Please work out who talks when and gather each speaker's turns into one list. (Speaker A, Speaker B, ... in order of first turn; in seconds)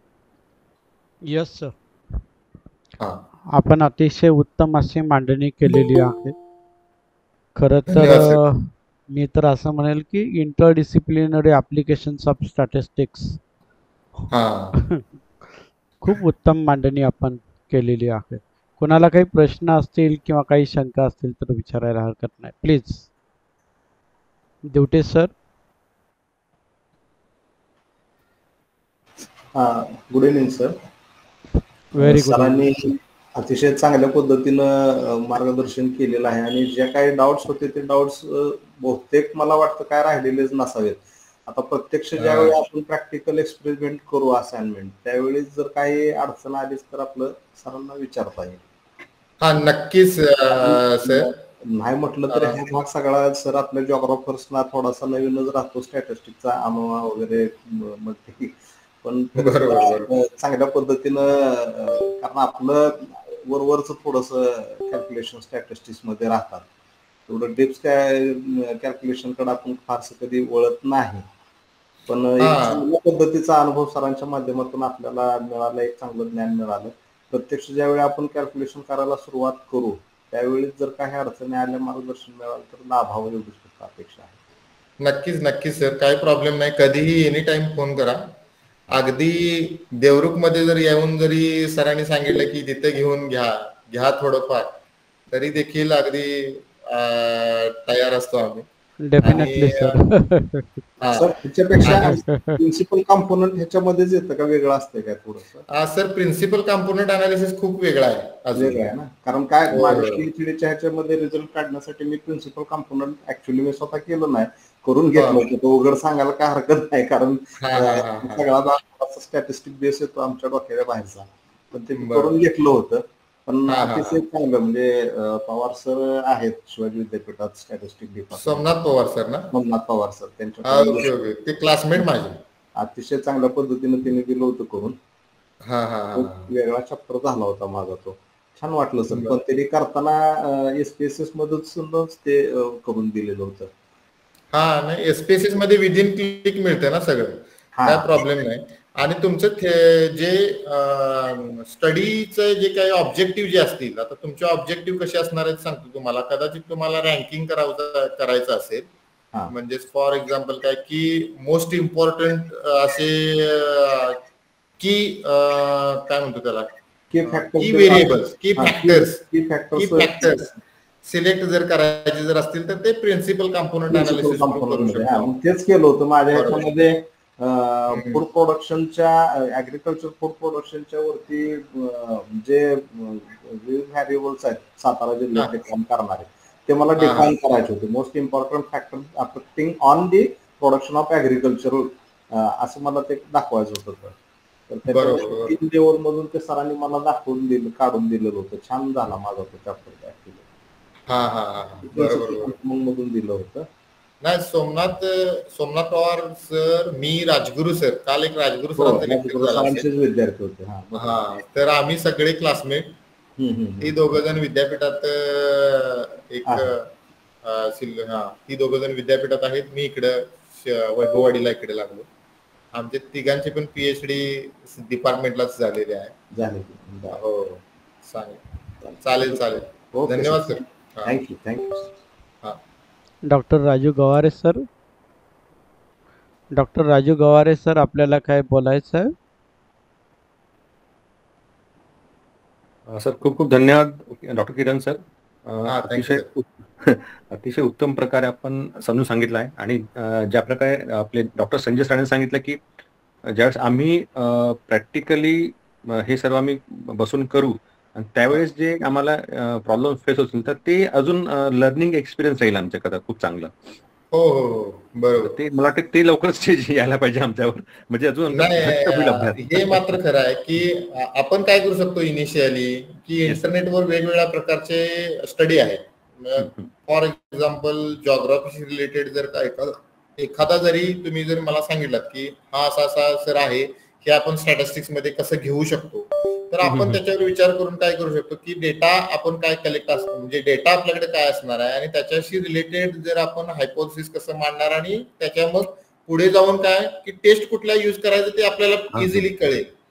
Speaker A: 1.2-1.8, 3.5-6.4, 7.5-13.4, 16.0-23.1, 24.6-25.3, 31.9-32.7, 99.0-100.8, 101.8-102.6, 233.3-234.7, 236.5-239.2
Speaker B: 7.9-8.4, 14.3-14.8, 42.2-42.5, 49.4-51.3, 52.3-52.6, 59.4-60.1, 72.4-72.9, 85.0-88.4, 88.9-94.8, 95.3-98.7, 99.2-100.0, 101.0-101.3, 101.9-102.2, 105.7-108.9, 109.7-110.2, 115.2-115.5, 117.6-118.4, 122.0-122.3, 123.7-124.2, 128.3-129.5, 130.7-132.4, 135.6-136.5, 139.1-139.4, 144.5-158.9, 159.5-164.2, 164.8-169.2, 169.8-175.3, 176.3-176.6, 177.9-178.2, 187.0-187.4, 194.9-195.5, 201.1-202.6, 204.2-209.9, 210.9-213.0, 213.8-216.9, 217.4-222.1, 222.7-226.2, 227.1-228.4, 229.0-231.2, 245.7-246.3, 264.1-265.4, 268.3-299.7
Speaker C: 29.5-30.8, 32.0-48.6, 50.5-66.7, 67.3-71.3, 72.1-84.4, 101.1-105.7, 108.5-128.7, 129.5-131.1, 132.8-135.0, 136.2-143.7, 147.8-148.1, 167.1-170.5, 173.9-194.2, 194.7-200.4, 201.8-203.7, 208.8-211.4, 213.4-213.9, 226.3-227.2, 228.8-231.9
Speaker D: 242.9-252.6, 253.3-263.6, 265.2-270.0, 276.4-276.7, 286.6-287.0, 298.9-299.3